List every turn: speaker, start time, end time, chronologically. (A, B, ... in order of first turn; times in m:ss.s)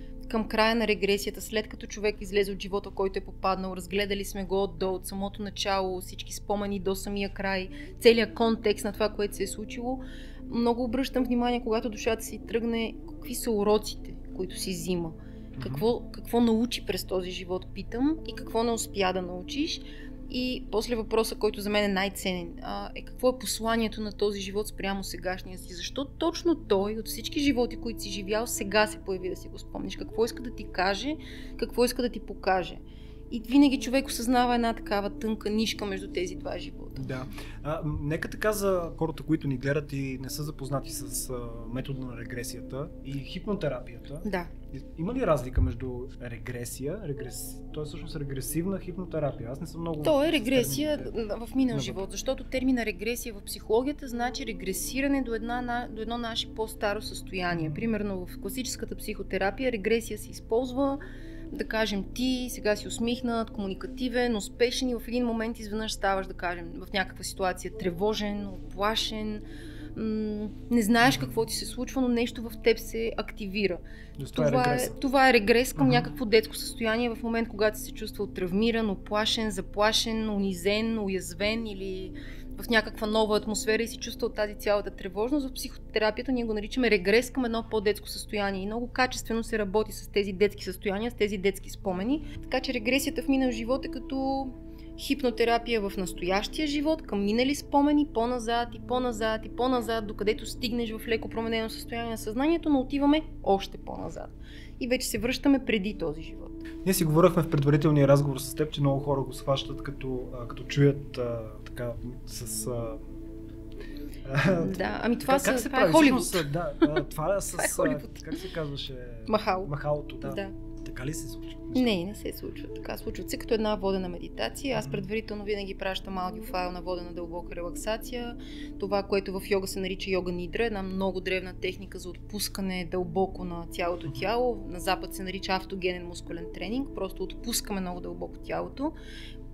0:00.3-0:37.2 A
0:15.6-0:15.9 B
0:37.0-0:51.1 B
0:44.2-0:44.5 A
0:50.0-1:01.0 A
0:51.7-0:52.0 B
0:57.5-0:57.9 B
1:01.5-1:09.4 A
1:09.9-1:13.8 A
1:11.0-1:11.4 B
1:14.2-1:15.0 B
1:14.3-1:46.6 A
1:15.8-1:16.1 B
1:46.8-1:53.0 B
1:54.2-2:02.0 B
1:54.4-1:57.0 A
1:57.5-1:58.4 A
1:59.3-1:59.7 A
2:00.2-2:00.5 A
2:01.7-2:18.9 A
2:04.7-2:05.0 B